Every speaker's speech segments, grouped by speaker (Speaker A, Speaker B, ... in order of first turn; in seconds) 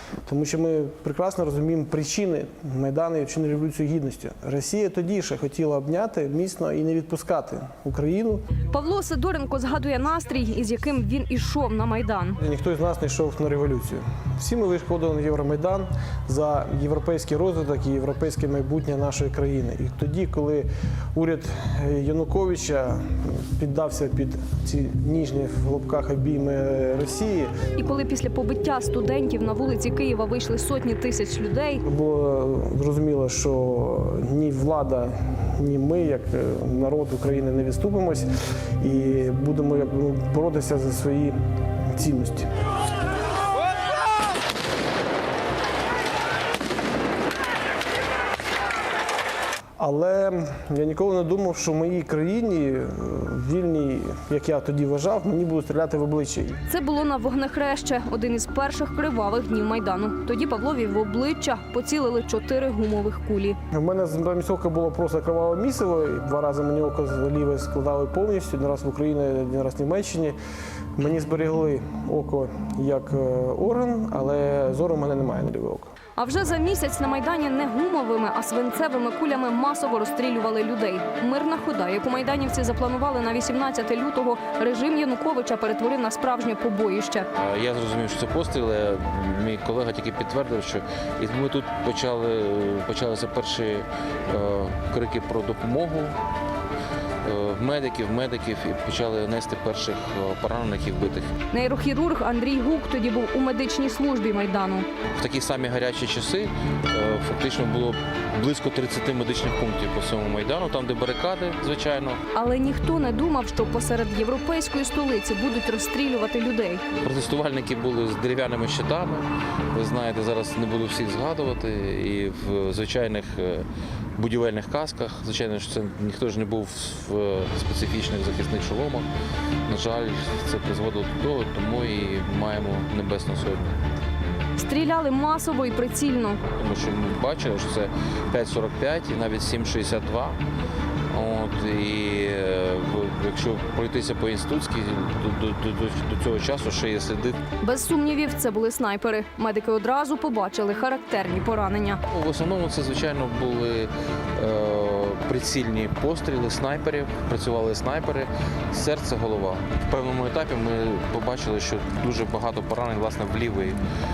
Speaker A: 0.2-8.4, 12.4-27.5, 31.8-38.3, 38.8-42.5, 49.8-56.6, 63.7-70.4, 71.0-75.9
Speaker B: 8.7-12.4, 27.8-31.8, 56.7-63.6, 76.2-87.3, 101.5-104.9, 112.3-116.8, 134.6-136.4, 147.6-152.0
Speaker C: 87.3-96.2, 97.2-101.3, 105.2-112.2, 117.0-129.1, 129.7-133.8, 136.6-140.4, 141.1-147.4, 152.1-163.8